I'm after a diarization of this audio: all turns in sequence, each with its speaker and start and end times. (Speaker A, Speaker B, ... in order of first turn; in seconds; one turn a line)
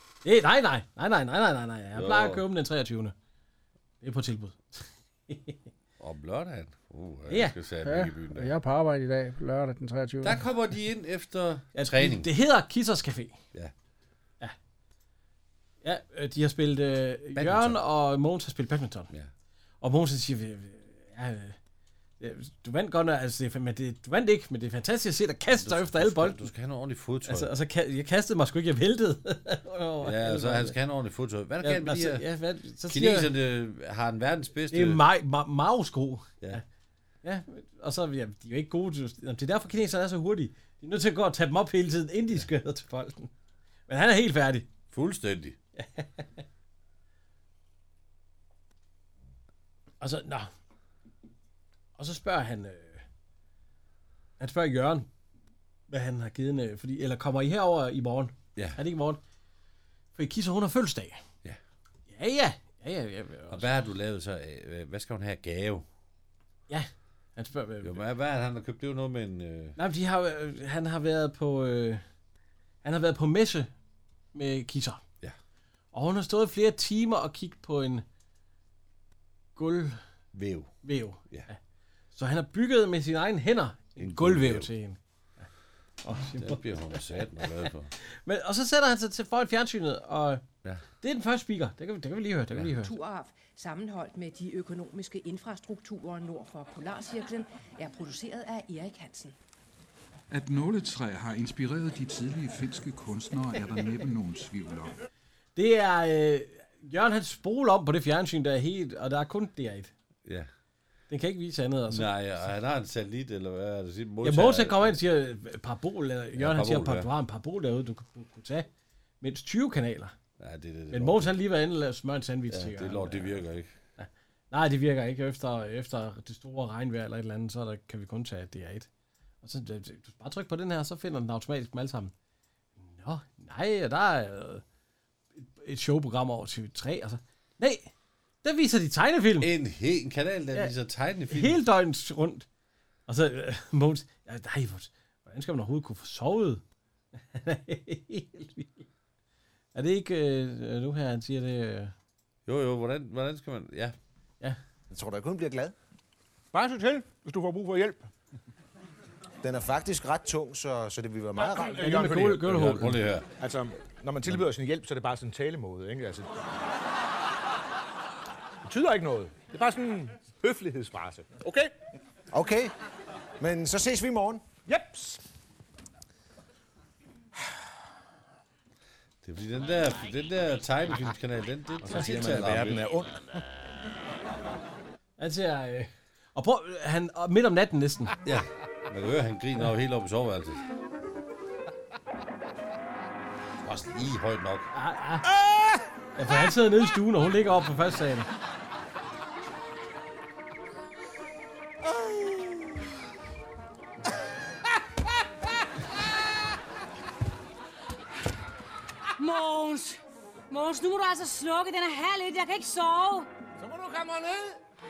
Speaker A: 0.2-3.1
Speaker B: 1.9-2.5
Speaker A: 4.0-5.6
Speaker B: 6.0-8.6
Speaker A: 7.3-7.5
Speaker C: 7.8-10.4
Speaker B: 10.2-12.3
Speaker A: 11.7-13.4
Speaker A: 15.8-19.1
Speaker B: 17.4-17.8
Speaker A: 19.8-21.6
Speaker A: 22.2-26.5
Speaker B: 25.5-27.5
Speaker A: 27.3-30.8
Speaker B: 30.0-32.3
Speaker A: 31.6-33.3
Speaker B: 32.9-35.0
Speaker A: 34.7-36.6
Speaker A: 37.2-43.3
Speaker A: 43.9-44.7
Speaker B: 44.9-45.6
Speaker A: 45.8-46.4
Speaker A: 50.0-50.5
Speaker A: 52.0-53.0
Speaker A: 54.4-55.1
Speaker A: 55.9-59.2
Speaker A: 60.1-61.2
Speaker A: 62.1-63.7
Speaker B: 63.5-65.9
Speaker A: 66.7-68.0
Speaker B: 67.8-69.8
Speaker A: 69.8-72.0
Speaker A: 72.8-73.7
Speaker A: 74.3-75.0
Speaker A: 75.9-78.0
Speaker A: 79.6-80.0
Speaker B: 80.3-80.7
Speaker A: 80.8-81.6
Speaker A: 82.1-85.4
Speaker B: 84.0-84.7
Speaker A: 86.0-90.4
Speaker B: 86.3-87.9
Speaker A: 91.0-93.0
Speaker D: 92.8-99.4
Speaker E: 100.3-105.0
Speaker A: 105.6-109.9
Speaker A: 111.1-112.1
Speaker B: 111.9-115.0
Speaker A: 114.2-118.7
Speaker B: 116.4-117.1
Speaker A: 119.2-120.2
Speaker B: 120.4-121.4
Speaker A: 120.9-123.4
Speaker B: 122.5-123.7
Speaker A: 124.0-128.9
Speaker A: 129.4-132.1
Speaker A: 132.8-134.6
Speaker A: 135.4-137.9
Speaker A: 138.4-139.5
Speaker B: 139.4-141.6
Speaker A: 141.3-142.5
Speaker A: 143.1-146.6
Speaker A: 147.2-148.8
Speaker A: 149.8-151.9
Speaker B: 152.5-154.0
Speaker F: 154.9-155.7
Speaker G: 156.5-158.1
Speaker F: 159.4-162.1
Speaker G: 161.4-162.6
Speaker A: 161.7-163.0
Speaker B: 162.3-163.3
Speaker G: 163.4-166.3
Speaker G: 168.6-171.7
Speaker F: 172.3-172.7
Speaker F: 173.4-174.5
Speaker G: 174.7-175.2
Speaker B: 179.2-182.8
Speaker G: 181.9-183.4
Speaker A: 185.2-188.2
Speaker B: 188.2-190.6
Speaker B: 193.6-194.7
Speaker A: 194.7-195.3
Speaker A: 196.2-198.3
Speaker H: 209.2-213.3
Speaker G: 213.6-214.6